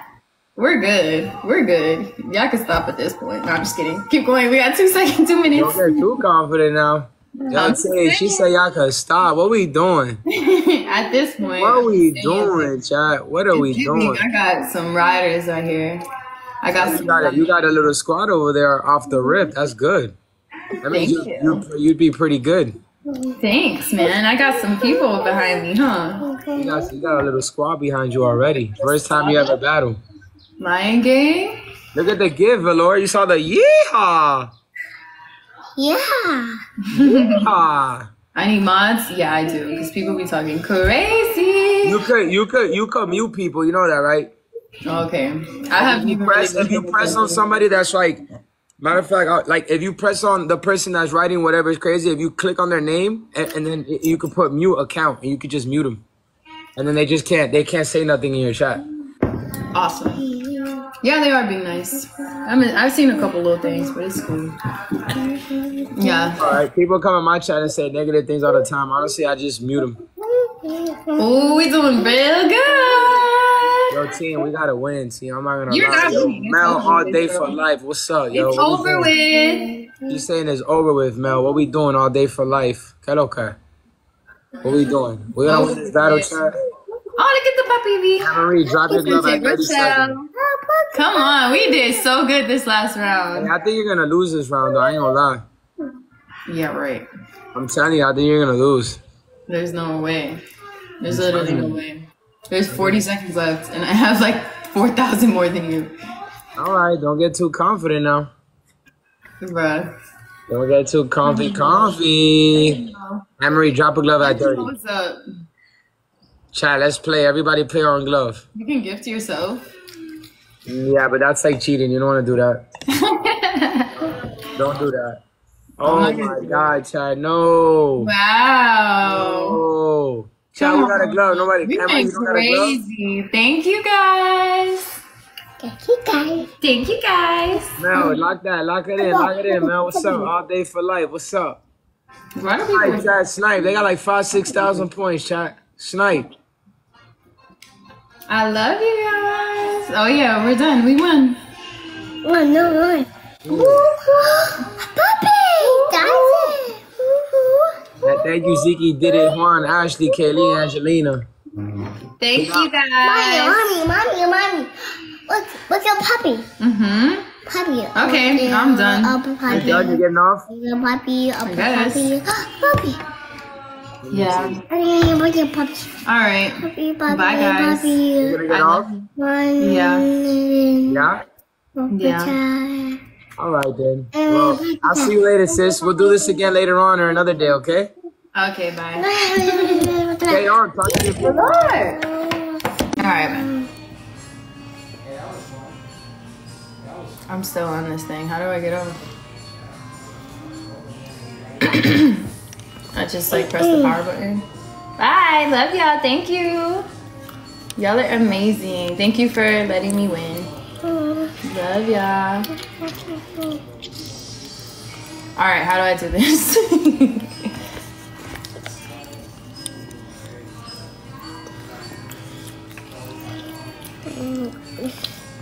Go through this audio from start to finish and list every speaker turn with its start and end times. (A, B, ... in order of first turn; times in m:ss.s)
0:00.6-0:06.2 A
0:05.5-0:10.2 B
0:07.4-0:08.5 A
0:10.3-0:12.8 A
0:11.6-0:14.3 B
0:13.5-0:16.0 A
0:16.6-0:17.7 A
0:16.7-0:20.2 B
0:20.8-0:22.8 B
0:20.9-0:21.7 A
0:23.4-0:26.3 A
0:26.3-0:27.0 C
0:26.5-0:30.0 B
0:28.8-0:29.6 A
0:30.6-0:31.6 A
0:31.9-0:34.5 B
0:35.8-0:36.6 C
0:36.9-0:37.5 A
0:37.0-0:38.1 B
0:38.3-0:42.1 A
0:41.8-0:44.3 B
0:44.9-0:47.4 A
0:45.8-0:48.2 B
0:48.8-0:56.0 B
0:56.8-0:58.8 B
0:59.7-1:00.2 A
1:00.2-1:00.8 C
1:01.0-1:04.6 A
1:05.2-1:06.3 C
1:06.0-1:06.6 A
1:06.4-1:10.0 B
1:10.3-1:11.2 C
1:11.2-1:13.8 A
1:13.9-1:19.1 B
1:15.7-1:17.6 A
1:18.3-1:19.7 A
1:19.5-1:20.2 C
1:20.1-1:23.6 B
1:24.6-1:26.6 B
1:25.4-1:26.4 A
1:27.2-1:28.3 A
1:28.2-1:30.2 B
1:28.8-1:29.5 C
1:28.9-1:30.3 A
1:30.4-1:31.9 C
1:30.9-1:33.5 A
1:33.3-1:35.4 B
1:34.6-1:35.1 C
1:36.5-1:37.1 A
1:37.5-1:39.0 B
1:39.5-1:40.4 A
1:41.0-1:45.9 A
1:41.1-1:41.8 B
1:42.7-1:43.0 B
1:46.6-1:48.3 B
1:49.4-1:49.9 A
1:50.5-1:52.8 B
1:51.2-1:52.0 A
1:52.5-1:53.3 A
1:53.4-1:54.7 B
1:54.2-1:55.2 A
1:56.5-1:58.4 B
1:58.6-1:59.6 A
2:00.7-2:02.6 B
2:02.9-2:04.2 A
2:04.6-2:05.2 B
2:05.8-2:08.1 B
2:05.8-2:06.8 A
2:08.0-2:09.6 A
2:09.1-2:12.8 B
2:10.6-2:14.9 A
2:15.6-2:16.5 C
2:16.6-2:17.8 A
2:17.8-2:21.6 B
2:17.9-2:18.2 C
2:19.0-2:20.3 C
2:22.4-2:23.1 A
2:22.7-2:26.3 B
2:28.3-2:31.4 A
2:32.2-2:39.4 C
2:33.4-2:33.9 B
2:35.6-2:36.6 A
2:38.0-2:41.3 B
2:40.0-2:40.8 C
2:42.2-2:43.7 A
2:42.3-2:42.7 B
2:43.0-2:44.7 C
2:45.3-2:46.4 C
2:46.6-2:47.3 A
2:47.5-2:53.0 C
2:47.9-2:49.9 A
2:49.5-2:50.5 B
2:51.4-2:52.1 A
2:54.0-2:54.6 B
2:54.1-2:54.6 A
2:54.7-2:55.9 C
2:56.0-3:00.1 A
2:56.6-2:58.4 C
2:58.2-2:58.9 B
2:59.2-3:01.1 C
3:00.9-3:01.2 B
3:01.8-3:03.0 C
3:01.9-3:02.4 A
3:03.4-3:07.9 B
3:04.1-3:06.5 C
3:08.3-3:09.9 A
3:09.0-3:12.7 C
3:10.3-3:11.4 B
3:11.2-3:12.0 A
3:13.0-3:13.5 A
3:17.3-3:19.0 A
3:21.6-3:22.3 A
3:22.9-3:24.4 A
3:23.5-3:23.9 C
3:25.0-3:26.9 A
3:27.8-3:30.5 A
3:30.8-3:31.3 C
3:31.4-3:32.5 A
3:35.4-3:37.5 A
3:44.2-3:44.7 C